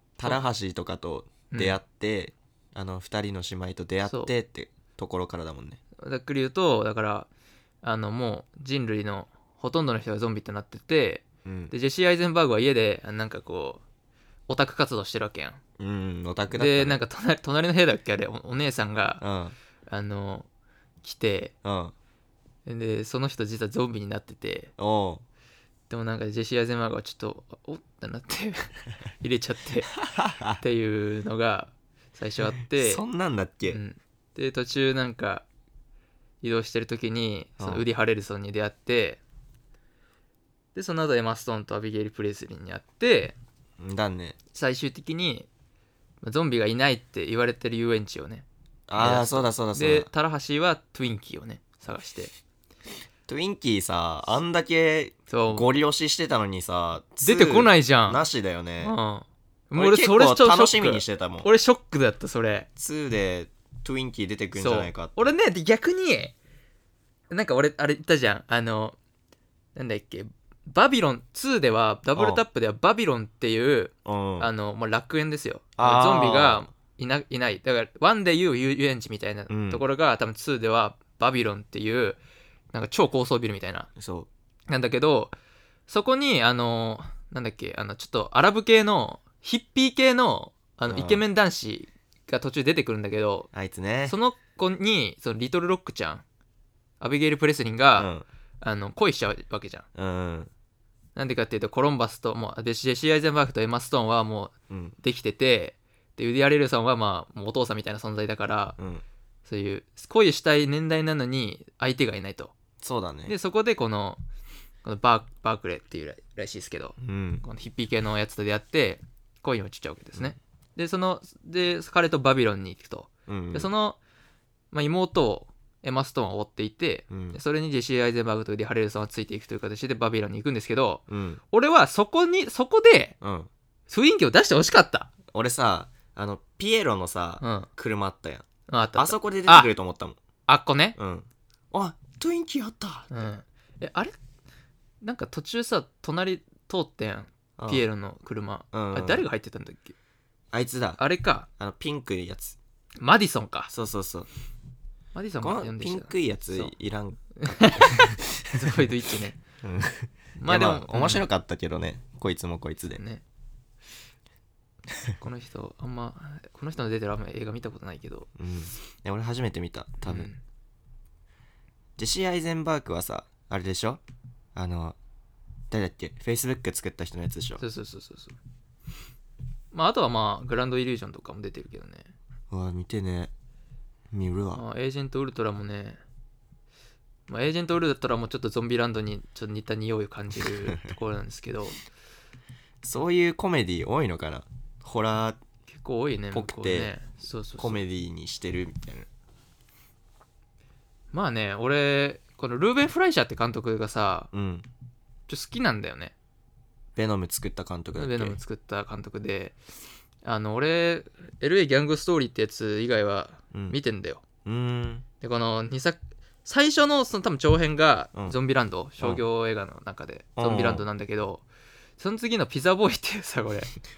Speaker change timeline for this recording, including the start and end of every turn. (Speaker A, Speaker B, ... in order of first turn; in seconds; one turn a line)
Speaker A: 0.2-5.8
Speaker B: 1.5-1.8
Speaker B: 4.1-4.3
Speaker B: 6.0-7.3
Speaker B: 7.8-13.8
Speaker A: 11.4-11.7
Speaker B: 14.5-15.6
Speaker A: 15.8-17.0
Speaker B: 16.5-19.2
Speaker A: 19.2-19.5
Speaker B: 19.9-20.5
Speaker B: 21.0-21.5
Speaker A: 21.6-21.9
Speaker B: 22.6-24.7
Speaker A: 24.8-25.2
Speaker B: 25.9-30.0
Speaker A: 30.1-30.6
Speaker B: 30.6-33.0
Speaker A: 32.7-33.8
Speaker B: 33.7-35.4
Speaker B: 36.4-39.2
Speaker A: 37.6-37.8
Speaker B: 40.7-43.4
Speaker A: 43.8-44.4
Speaker B: 44.5-45.5
Speaker B: 46.2-48.4
Speaker A: 48.9-50.1
Speaker B: 49.0-52.3
Speaker A: 53.3-59.0
Speaker B: 55.3-55.7
Speaker B: 57.2-58.2
Speaker B: 58.8-62.7
Speaker A: 59.7-61.5
Speaker A: 62.8-65.3
Speaker B: 64.5-66.3
Speaker B: 67.3-69.0
Speaker B: 69.7-82.2
Speaker A: 72.2-72.4
Speaker A: 74.0-74.5
Speaker A: 75.8-76.7
Speaker A: 79.5-79.8
Speaker B: 82.7-83.9
Speaker A: 84.0-84.3
Speaker B: 84.7-85.3
Speaker B: 85.9-93.5
Speaker A: 90.9-91.2
Speaker A: 93.5-94.2
Speaker B: 94.0-96.2
Speaker B: 97.0-99.8
Speaker A: 98.0-98.2
Speaker A: 99.9-100.5
Speaker B: 101.2-108.8
Speaker A: 104.7-104.9
Speaker A: 108.8-109.0
Speaker B: 109.5-112.5
Speaker A: 112.8-113.3
Speaker B: 113.2-114.2
Speaker B: 114.8-124.0
Speaker A: 117.0-117.5
Speaker A: 123.3-123.7
Speaker B: 124.7-133.2
Speaker A: 127.1-127.4
Speaker A: 131.1-131.4
Speaker A: 133.2-133.5
Speaker B: 133.9-135.1
Speaker A: 135.3-138.4
Speaker B: 137.4-137.7
Speaker B: 138.7-139.7
Speaker A: 138.9-140.2
Speaker B: 140.5-140.9
Speaker A: 141.0-143.1
Speaker B: 143.1-144.1
Speaker B: 145.0-149.9
Speaker A: 147.6-147.8
Speaker A: 148.7-149.2
Speaker A: 150.5-151.0
Speaker B: 151.0-151.5
Speaker A: 151.6-152.6
Speaker B: 153.0-153.7
Speaker A: 153.7-154.3
Speaker B: 155.1-156.7
Speaker A: 155.4-157.9
Speaker B: 157.4-159.4
Speaker A: 159.6-163.0
Speaker B: 160.4-161.2
Speaker B: 162.9-163.2
Speaker B: 165.2-168.3
Speaker A: 168.4-170.3
Speaker B: 170.0-170.4
Speaker A: 172.0-174.0
Speaker A: 174.5-174.9
Speaker A: 175.7-177.6
Speaker B: 177.6-178.3
Speaker B: 179.7-182.1
Speaker A: 182.5-183.3
Speaker A: 184.1-184.6
Speaker B: 184.5-186.0
Speaker B: 187.3-191.8
Speaker A: 192.8-195.4
Speaker B: 195.7-197.8
Speaker A: 196.3-196.9
Speaker A: 197.6-199.1
Speaker B: 201.1-204.3
Speaker A: 204.3-204.7
Speaker B: 205.3-206.1
Speaker A: 206.9-208.4
Speaker B: 207.9-209.5
Speaker B: 210.2-214.2
Speaker A: 213.5-213.8
Speaker A: 214.4-215.0
Speaker B: 215.2-221.4
Speaker A: 220.4-220.8
Speaker B: 222.0-223.7